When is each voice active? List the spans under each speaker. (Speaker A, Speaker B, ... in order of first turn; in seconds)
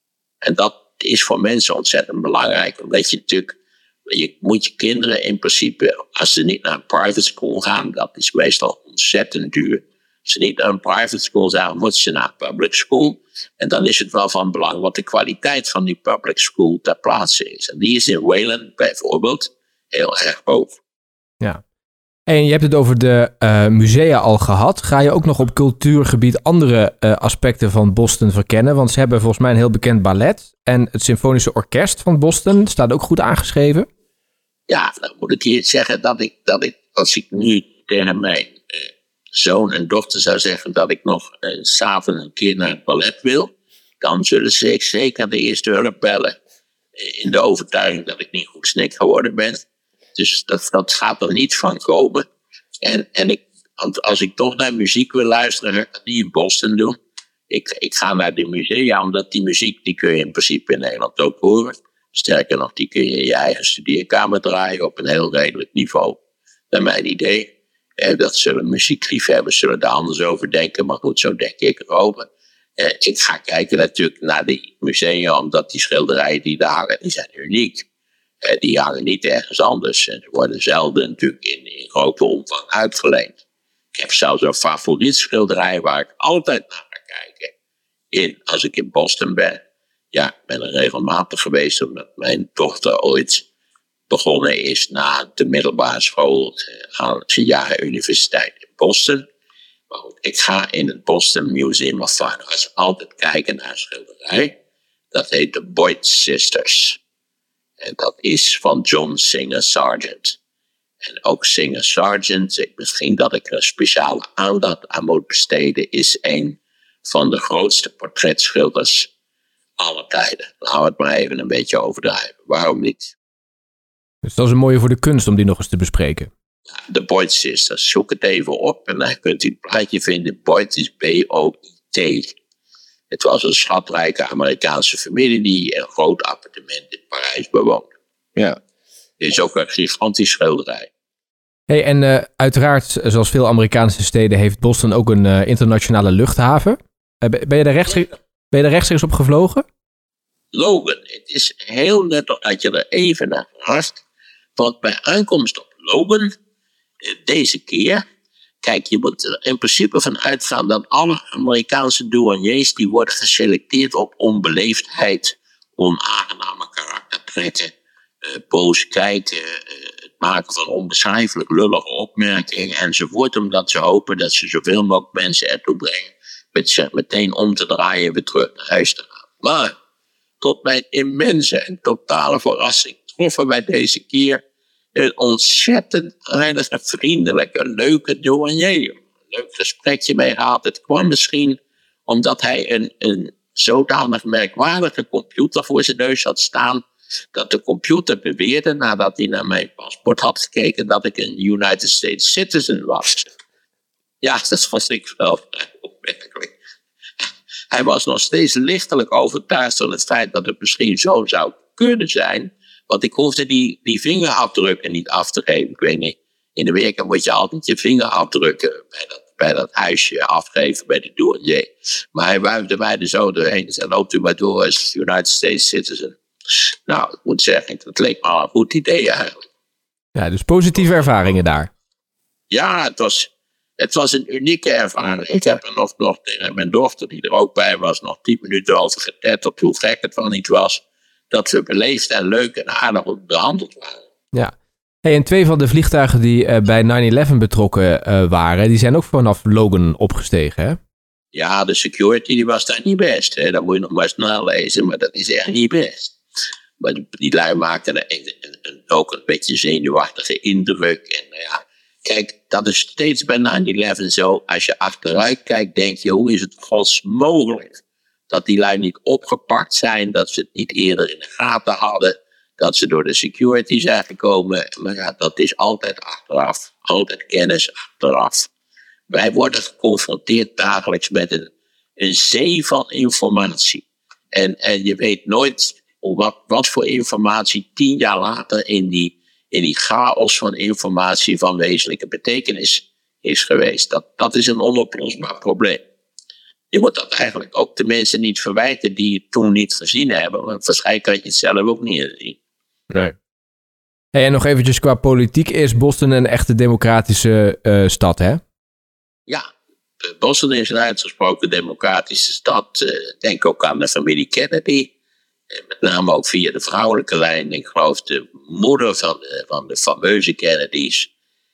Speaker A: 0.4-3.5, 4.1-20.8, 34.7-46.4, 47.0-49.6, 50.1-52.2, 52.8-57.0, 57.5-66.2, 66.7-77.8, 78.4-83.4, 83.9-87.5, 88.1-89.6, 90.1-93.4, 94.1-99.2, 99.9-104.5, 105.1-107.0, 107.8-110.4, 111.0-119.1, 119.8-123.1, 126.9-132.3, 133.1-137.9, 139.2-140.9, 150.5-154.0, 154.6-156.3, 157.0-158.0, 158.6-167.7, 168.2-179.7, 180.4-184.4, 184.9-203.3, 204.2-206.5, 207.7-226.2, 226.9-229.4, 232.5-244.0, 251.3-256.1, 256.8-278.5, 279.1-295.8, 296.7-302.4, 310.0-314.9, 315.5-321.1
Speaker B: 22.3-33.9, 124.2-126.3, 141.7-149.6, 230.2-231.7, 245.0-250.8, 304.1-308.4